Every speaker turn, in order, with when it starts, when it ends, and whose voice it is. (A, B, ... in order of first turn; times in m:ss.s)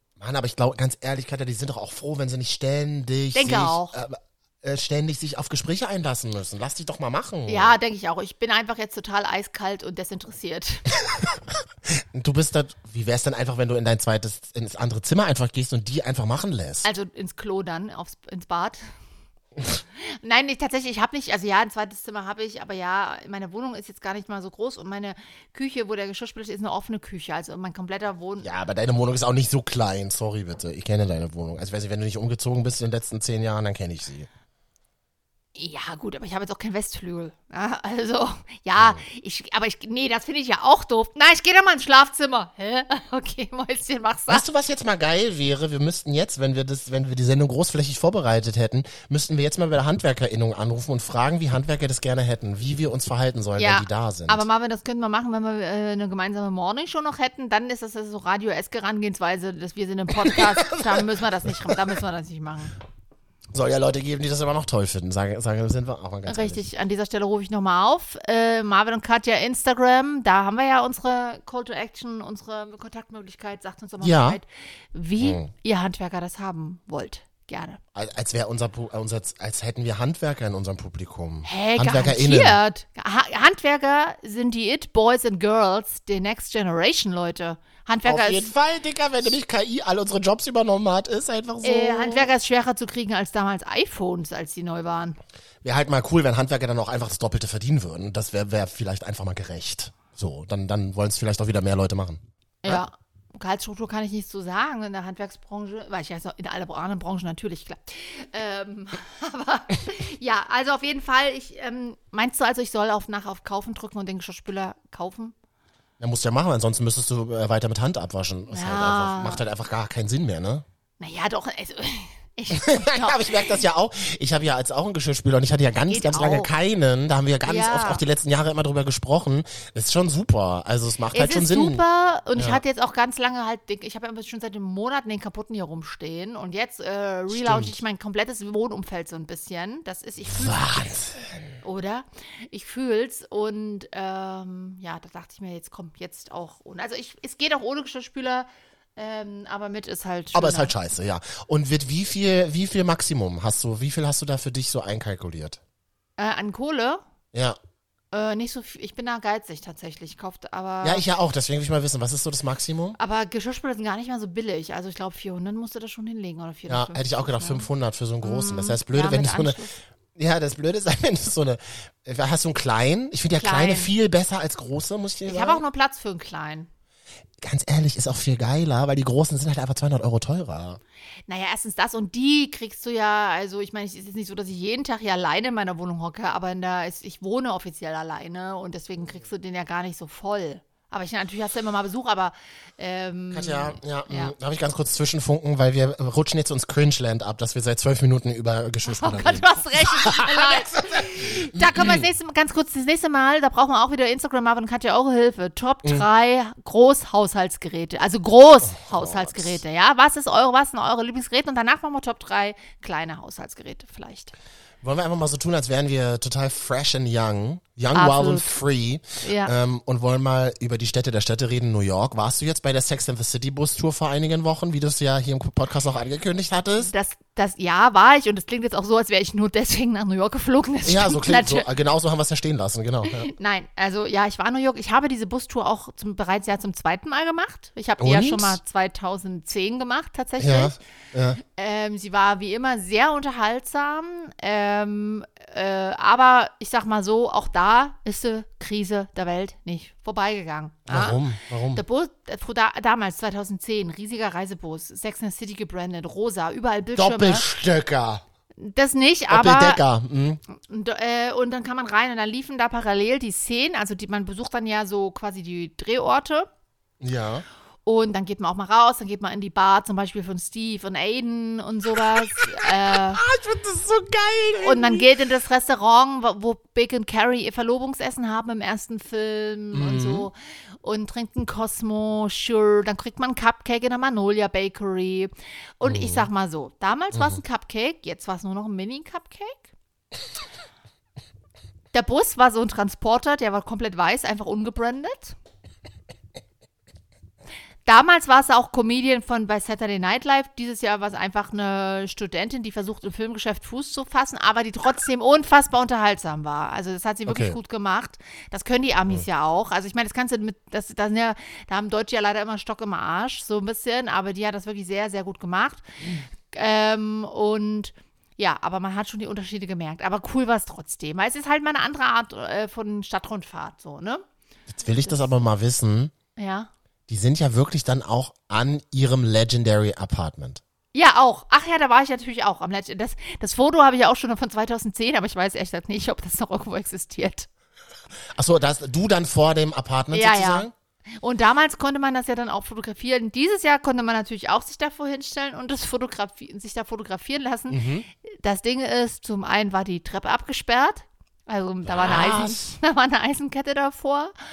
0:00.2-0:07.7 A
0:03.3-0:03.9 B
0:07.4-0:10.9 B
0:11.0-0:16.9 A
0:16.8-0:18.8 B
0:19.9-0:28.5 B
0:28.4-0:34.3 A
0:35.6-0:44.4 B
0:38.8-0:39.0 A
0:44.3-0:54.4 A
0:53.6-1:02.7 B
1:00.2-1:01.0 A
1:03.5-1:06.6 A
1:06.3-1:17.8 B
1:14.0-1:14.4 A
1:15.2-1:15.5 A
1:17.9-1:22.6 A
1:21.4-1:28.5 B
1:28.0-1:32.3 A
1:31.6-1:35.2 B
1:35.6-1:42.8 A
1:42.6-1:55.3 B
1:56.0-2:00.6 A
1:58.5-1:59.4 B
2:01.0-2:03.6 B
2:02.5-2:11.8 A
2:05.9-2:06.5 B
2:07.4-2:08.0 B
2:11.1-2:20.6 B
2:12.4-2:12.6 A
2:17.3-2:17.8 A
2:20.2-2:21.6 A
2:21.6-2:30.7 B
2:30.3-2:35.6 A
2:36.2-2:37.0 B
2:37.3-2:37.6 A
2:38.1-2:41.0 B
2:40.8-2:43.0 A
2:43.0-2:47.7 B
2:46.7-2:49.6 A
2:48.2-2:49.7 B
2:50.2-2:55.6 A
2:53.3-2:53.9 B
2:55.2-2:56.7 B
2:57.4-3:00.8 A
3:01.3-3:14.3 B
3:13.3-3:22.0 A
3:18.8-3:34.3 B
3:28.7-3:29.6 A
3:34.8-3:46.9 A
3:37.9-3:38.6 B
3:39.2-3:39.5 B
3:46.8-3:51.7 B
3:50.8-3:53.3 A
3:53.0-4:00.8 B
3:58.0-3:58.6 A
4:00.4-4:01.4 A
4:01.4-4:11.2 B
4:10.9-4:11.8 A
4:11.7-4:17.4 B
4:17.0-4:18.2 A
4:18.6-4:19.8 B
4:19.3-4:20.4 A
4:20.5-4:26.5 B
4:27.0-4:27.4 A
4:27.8-4:33.2 B
4:32.1-4:35.1 A
4:34.6-4:49.7 B
4:39.7-4:40.3 A
4:45.8-4:46.3 A
4:47.1-4:47.4 A
4:51.9-4:55.4 B
4:57.8-5:24.2 B
5:07.3-5:07.6 A
5:24.7-5:26.1 A
5:25.0-5:25.3 B
5:26.4-5:26.7 B
5:27.1-5:30.6 A
5:30.9-5:37.5 B
5:38.3-5:40.7 A
5:40.1-5:40.7 B
5:41.2-5:54.3 B
5:47.7-5:48.1 A
5:51.8-5:52.7 A